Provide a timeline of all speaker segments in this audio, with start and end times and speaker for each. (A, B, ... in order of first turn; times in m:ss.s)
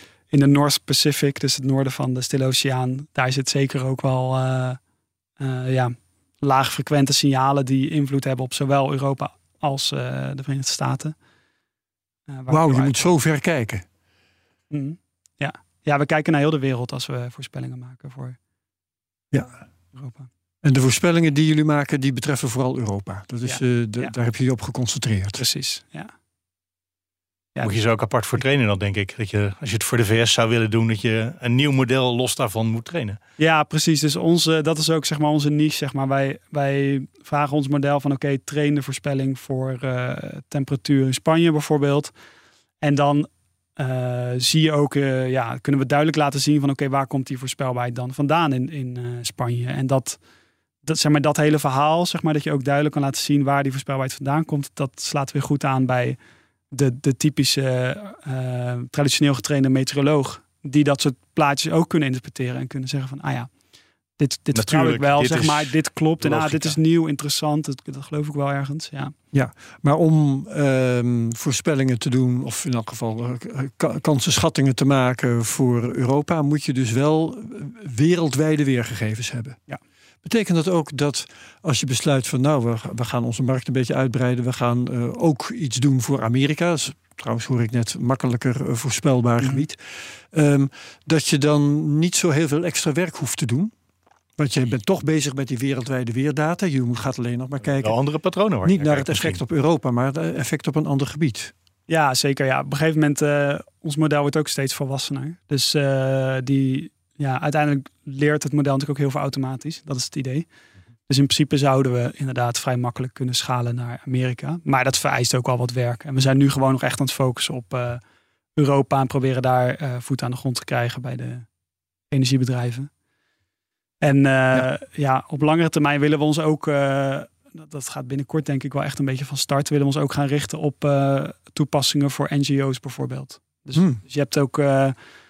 0:00.3-0:04.8 A
0:05.4-0:11.2 A
0:12.3-0:13.0 A
0:12.5-0:13.8 B
0:14.7-0:18.4 A
0:19.3-0:19.6 B
0:19.9-0:20.3 A
0:20.6-0:25.4 B
0:23.4-0:24.2 A
0:25.4-0:26.1 A
0:27.6-0:33.2 C
0:33.4-0:42.1 A
0:42.8-0:50.2 A
0:50.8-0:56.2 A
0:56.7-1:03.5 A
1:04.2-1:09.1 A
1:04.5-1:06.8 C
1:09.3-1:19.6 B
1:20.2-1:33.7 B
1:29.4-1:29.6 A
1:34.4-1:38.0 B
1:37.7-1:39.4 C
1:38.6-1:41.5 B
1:41.9-1:50.5 A
1:51.1-1:58.0 A
1:58.6-2:01.5 A
2:02.1-2:02.9 A
2:04.0-2:15.0 A
2:13.7-2:14.0 B